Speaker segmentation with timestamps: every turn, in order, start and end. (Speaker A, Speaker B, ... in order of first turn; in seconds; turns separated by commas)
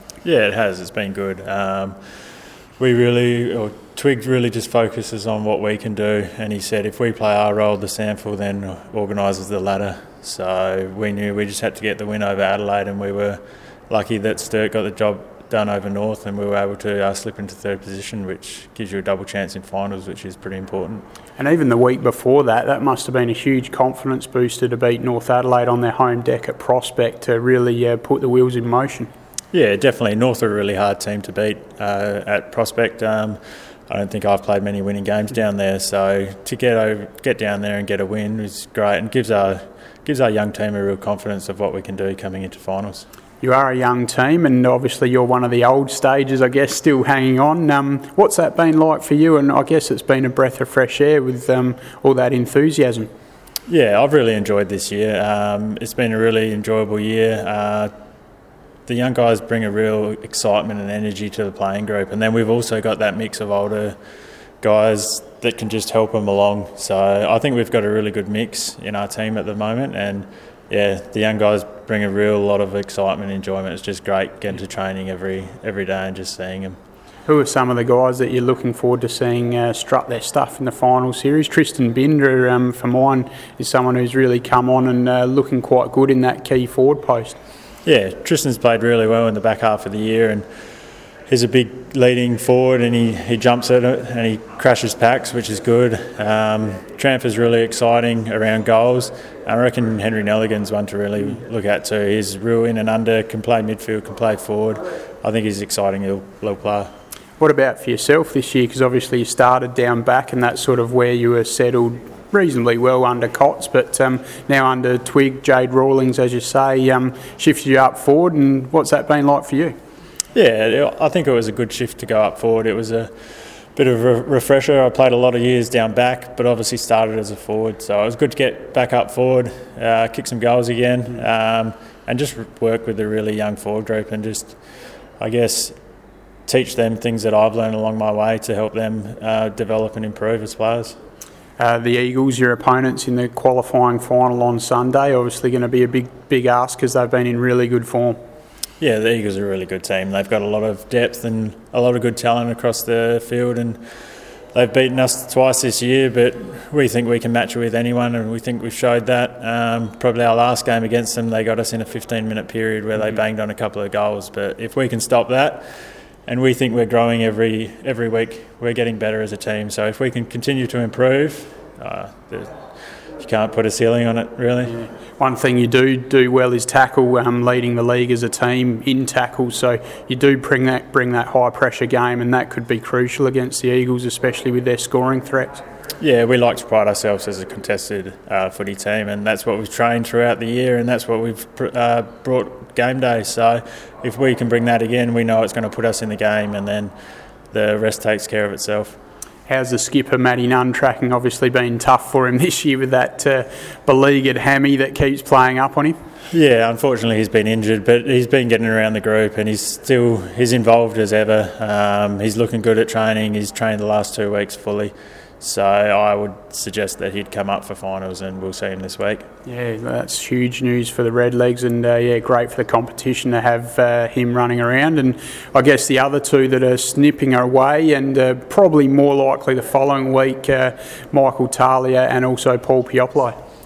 Speaker A: 0.2-1.9, Speaker A: 2.8-13.4, Speaker A: 13.9-21.0, Speaker B: 21.4-29.1, Speaker A: 29.5-43.0, Speaker B: 43.4-53.1, Speaker A: 53.7-57.9, Speaker A: 58.9-64.0, Speaker A: 64.6-76.8, Speaker B: 77.3-87.4, Speaker A: 87.8-90.4, Speaker A: 91.3-106.9, Speaker B: 107.4-119.7, Speaker A: 120.3-123.1, Speaker A: 123.8-134.6, Speaker A: 135.2-135.7, Speaker A: 136.5-140.9, Speaker B: 141.6-148.2, Speaker A: 148.8-153.8, Speaker A: 154.5-165.6, Speaker A: 166.2-172.5, Speaker A: 173.2-174.8, Speaker B: 174.8-185.6, Speaker A: 186.0-196.9, Speaker A: 197.5-199.0, Speaker B: 199.5-205.9, Speaker A: 206.3-219.2, Speaker B: 219.4-233.3